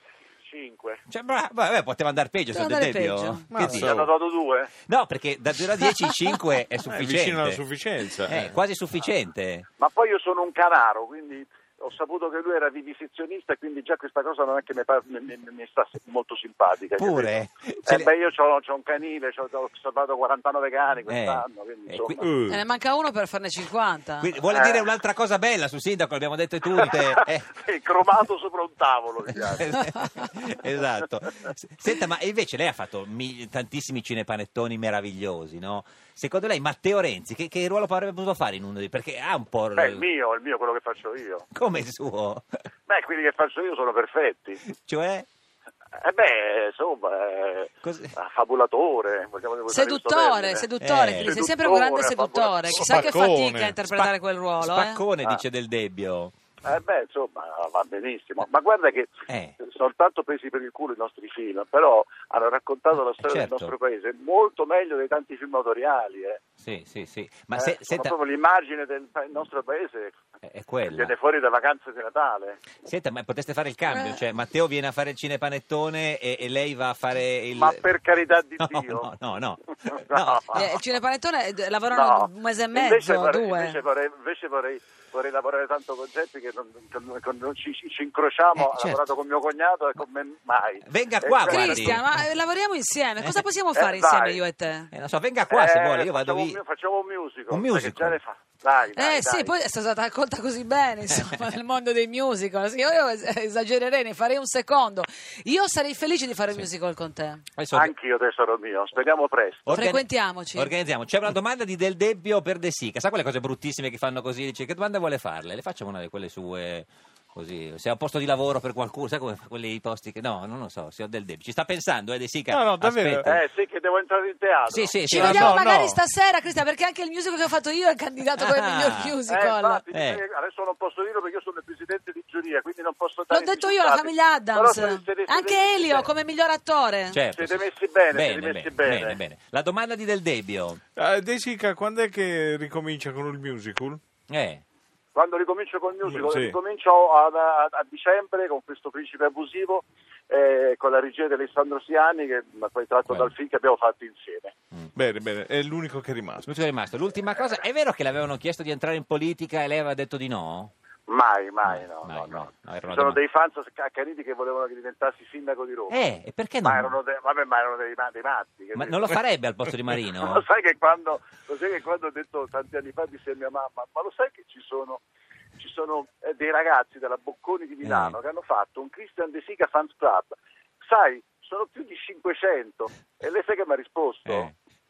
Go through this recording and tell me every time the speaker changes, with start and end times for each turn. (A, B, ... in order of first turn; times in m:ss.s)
0:00.4-0:01.0 A
0:01.1-0:03.9 B
0:02.5-0:03.5 C
0:03.5-0:04.1 D
0:03.6-0:04.7 A
0:04.9-0:07.6 B
0:06.9-0:08.5 D
0:08.3-0:09.7 B
0:09.8-0:22.2 A
0:17.0-0:18.1 B
0:21.1-0:22.2 B
0:22.2-0:22.6 D
0:22.5-0:24.3 C
0:24.2-0:27.5 B
0:24.5-0:24.9 A
0:26.8-0:30.0 A
0:29.5-0:40.0 B
0:39.7-0:41.4 A
0:41.5-0:42.4 B
0:42.9-0:44.6 A
0:44.8-0:45.3 B
0:46.0-0:53.2 A
0:47.8-0:48.1 B
0:49.7-0:55.0 C
0:50.8-0:51.3 B
0:52.7-0:53.8 D
0:53.9-0:56.3 B
0:56.6-1:06.4 A
0:59.3-0:59.5 B
1:03.2-1:03.7 B
1:06.6-1:08.1 B
1:07.5-1:10.2 A
1:10.4-1:11.1 B
1:10.9-1:12.6 A
1:12.8-1:17.8 B
1:13.9-1:14.2 C
1:17.6-1:19.1 A
1:18.6-1:20.7 B
1:19.9-1:20.6 A
1:20.5-1:23.8 C
1:21.9-1:32.0 A
1:28.6-1:29.0 B
1:30.8-1:32.0 B
1:31.4-1:34.9 C
1:33.7-1:34.4 A
1:34.9-1:36.6 B
1:35.5-1:39.5 A
1:37.5-1:38.2 B
1:38.9-1:47.4 C
1:47.6-1:47.9 B
1:47.7-1:49.7 A
1:49.6-2:03.4 B
1:49.7-1:50.7 C
2:02.5-2:03.3 D
2:03.2-2:05.3 A
2:04.7-2:05.6 B
2:05.1-2:09.8 C
2:05.1-2:06.0 D
2:08.4-2:09.1 B
2:09.3-2:16.1 A
2:09.9-2:10.2 B
2:13.3-2:17.2 C
2:17.1-2:20.8 B
2:17.3-2:19.2 A
2:21.0-2:24.0 D
2:24.3-2:24.6 B
2:25.1-2:34.5 A
2:26.0-2:26.6 D
2:34.9-2:36.5 D
2:36.4-2:40.7 B
2:41.1-2:45.9 A
2:41.6-2:43.2 B
2:45.9-2:46.9 B
2:46.6-2:49.2 A
2:48.7-2:50.4 B
2:49.9-2:55.0 A
2:55.6-3:04.5 A
2:57.8-2:58.2 B
3:04.3-3:04.5 B